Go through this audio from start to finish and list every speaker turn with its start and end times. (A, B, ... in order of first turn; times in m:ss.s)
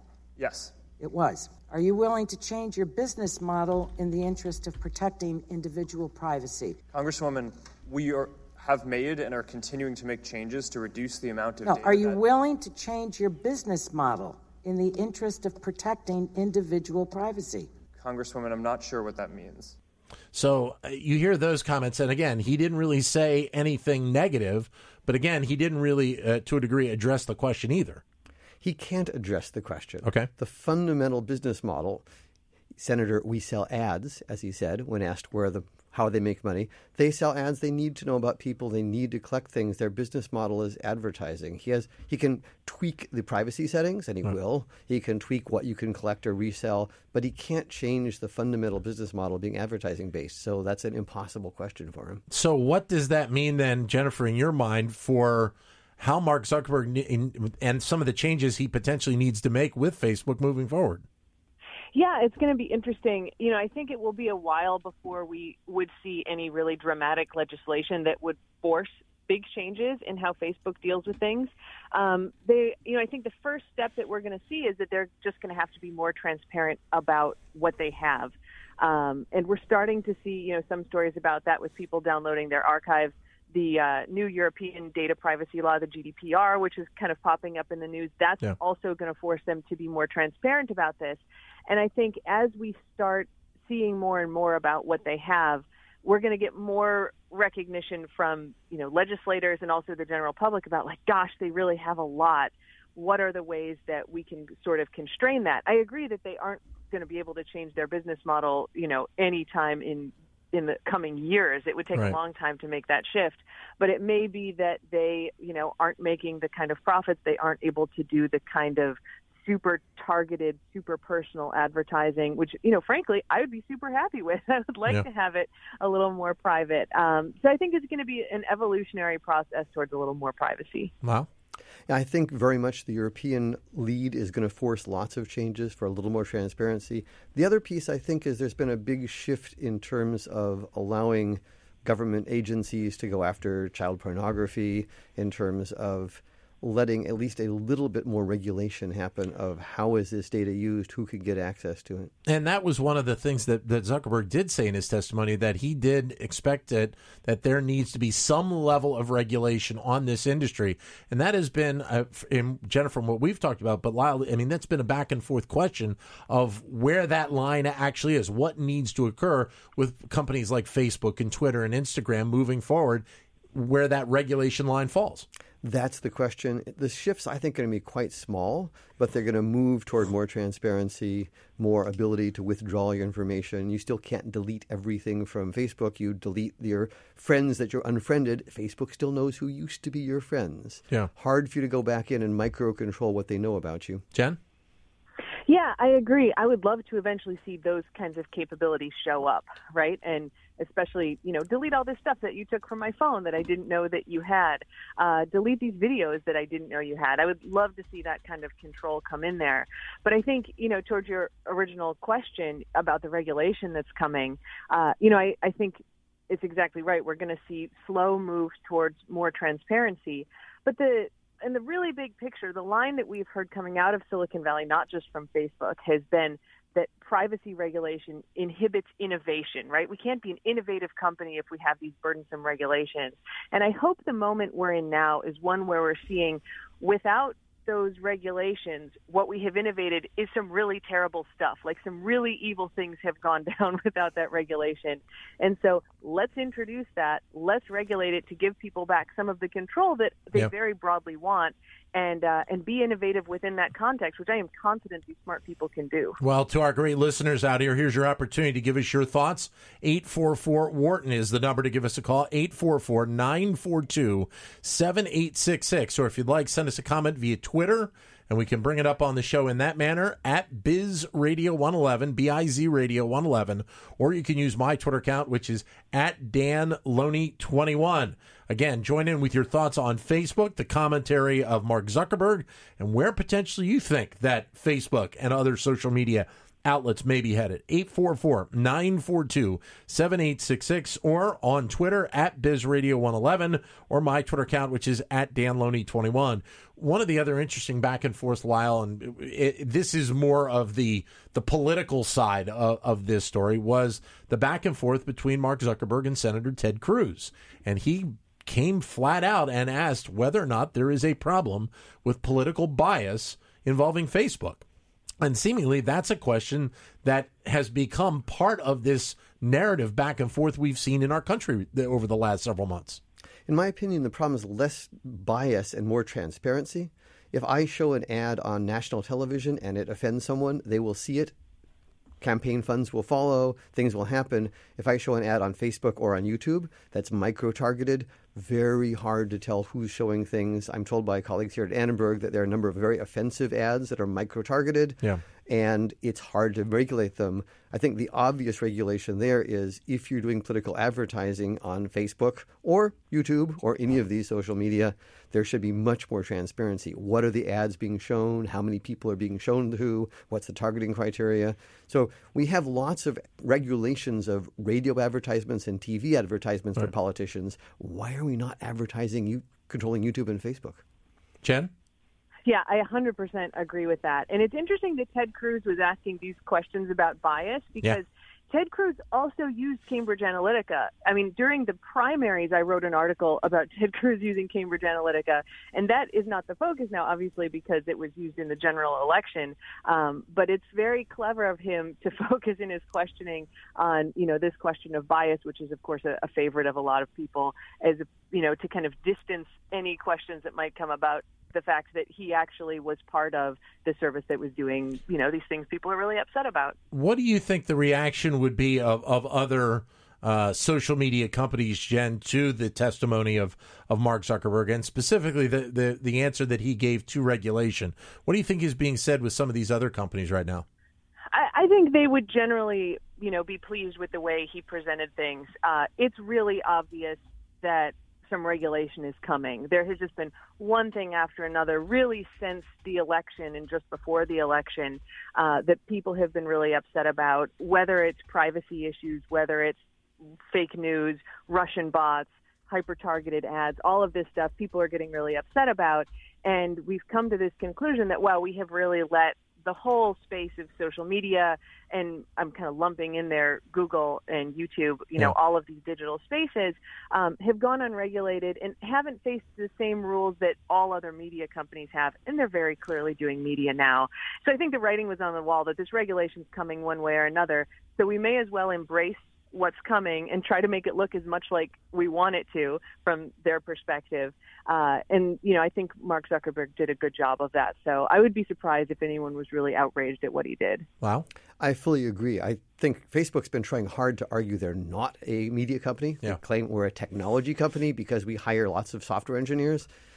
0:00.4-0:00.8 A
0:01.0-0:06.8 B
0:06.9-0:12.2 A
0:11.6-0:17.7 B
0:18.0-0:19.8 A
0:20.3-0:28.0 C
0:28.6-0:32.0 D
0:30.0-0:30.3 C
0:32.8-0:52.2 D
0:52.3-1:01.0 C
1:01.9-2:10.9 E
2:11.9-2:32.1 D
2:32.2-2:55.3 C
2:55.6-3:14.0 D
3:15.5-4:16.2 E
4:16.2-5:14.6 C
5:15.2-5:23.0 C
5:23.5-5:31.3 D
5:32.2-6:10.8 D
6:11.4-6:11.7 C
6:12.4-6:46.8 E
6:46.9-7:00.6 C
7:01.3-7:19.8 E
7:20.5-8:00.8 E
8:01.6-8:09.9 D